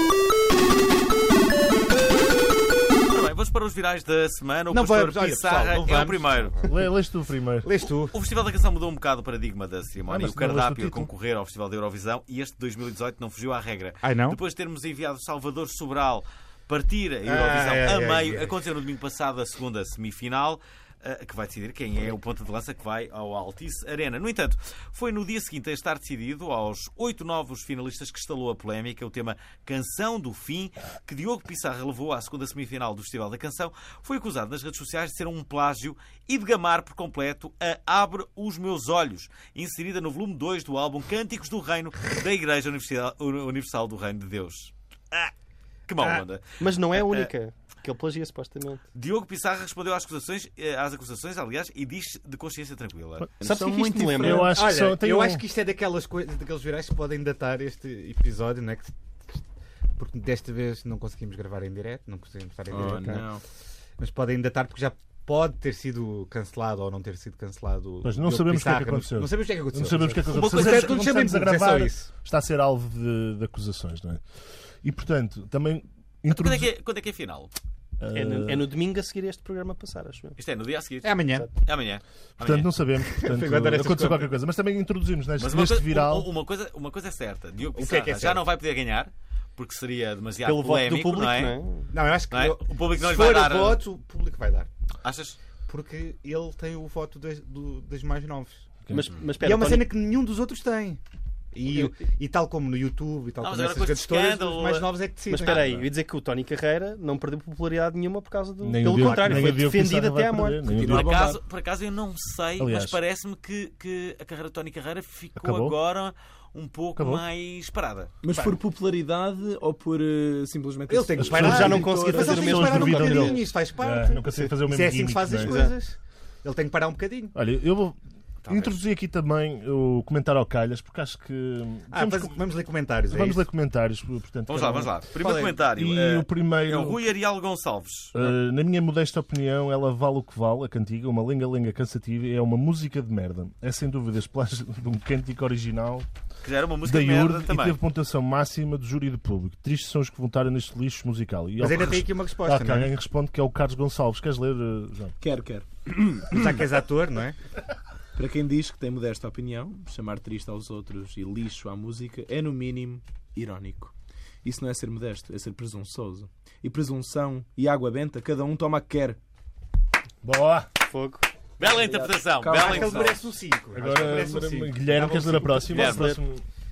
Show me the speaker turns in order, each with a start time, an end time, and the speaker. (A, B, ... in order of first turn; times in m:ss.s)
0:03.1-0:06.6 A
0:04.7-0:06.7 B
0:06.6-0:07.7 C
0:07.6-0:08.1 B
0:08.1-0:45.3 A
0:10.1-0:11.1 C
0:14.0-0:14.4 B
0:17.2-0:18.5 B
0:45.9-0:47.3 A
0:46.6-0:48.8 D
0:48.9-0:53.3 A
0:53.4-0:54.5 E
0:53.4-0:54.6 D
0:54.2-0:55.4 C
0:54.6-0:59.4 B
1:00.0-1:03.3 B
1:02.7-1:03.4 E
1:04.0-1:12.1 B
1:08.0-1:14.2 C
1:10.3-1:11.1 A
1:14.8-1:16.7 C
1:16.3-1:17.5 A
1:18.0-1:18.7 C
1:18.1-1:20.4 D
1:20.4-1:22.7 A
1:21.0-1:21.5 B
1:22.4-1:26.3 C
1:23.2-1:24.3 B
1:25.4-1:31.6 A
1:27.8-1:28.5 B
1:30.4-1:31.9 D
1:31.9-1:34.7 B
1:32.3-1:33.8 A
1:35.0-1:35.4 A
1:35.7-1:38.7 B
1:38.9-1:39.2 C
1:38.9-1:39.9 D
1:39.4-1:41.0 B
1:41.5-1:45.8 B
1:43.4-1:45.7 A
1:45.3-1:50.6 D
1:48.6-1:51.2 C
1:50.7-1:51.4 E
1:50.8-1:58.1 A
1:52.6-1:53.0 C
1:55.4-1:55.8 C
1:57.0-1:57.2 C
1:58.2-2:02.5 E
2:00.9-2:07.4 B
2:01.2-2:05.6 C
2:01.3-2:03.4 D
2:05.4-2:05.7 D
2:07.3-2:12.4 C
2:11.9-2:13.5 B
2:13.1-2:15.0 C
2:14.5-2:18.3 A
2:15.2-2:15.6 B
2:15.6-2:17.1 C
2:18.1-2:26.1 C
2:26.4-2:27.8 A
2:26.8-2:35.1 C
2:31.6-2:32.9 B
2:35.2-2:36.6 E
2:36.3-2:37.4 B
2:38.2-2:43.9 E
2:44.4-2:49.2 E
2:50.2-2:50.7 C
2:50.9-2:51.3 D
2:51.6-2:53.2 A
2:52.3-2:53.2 E
2:52.5-2:56.0 B
2:53.7-2:56.4 C
2:55.7-2:56.1 A
2:55.8-2:56.2 D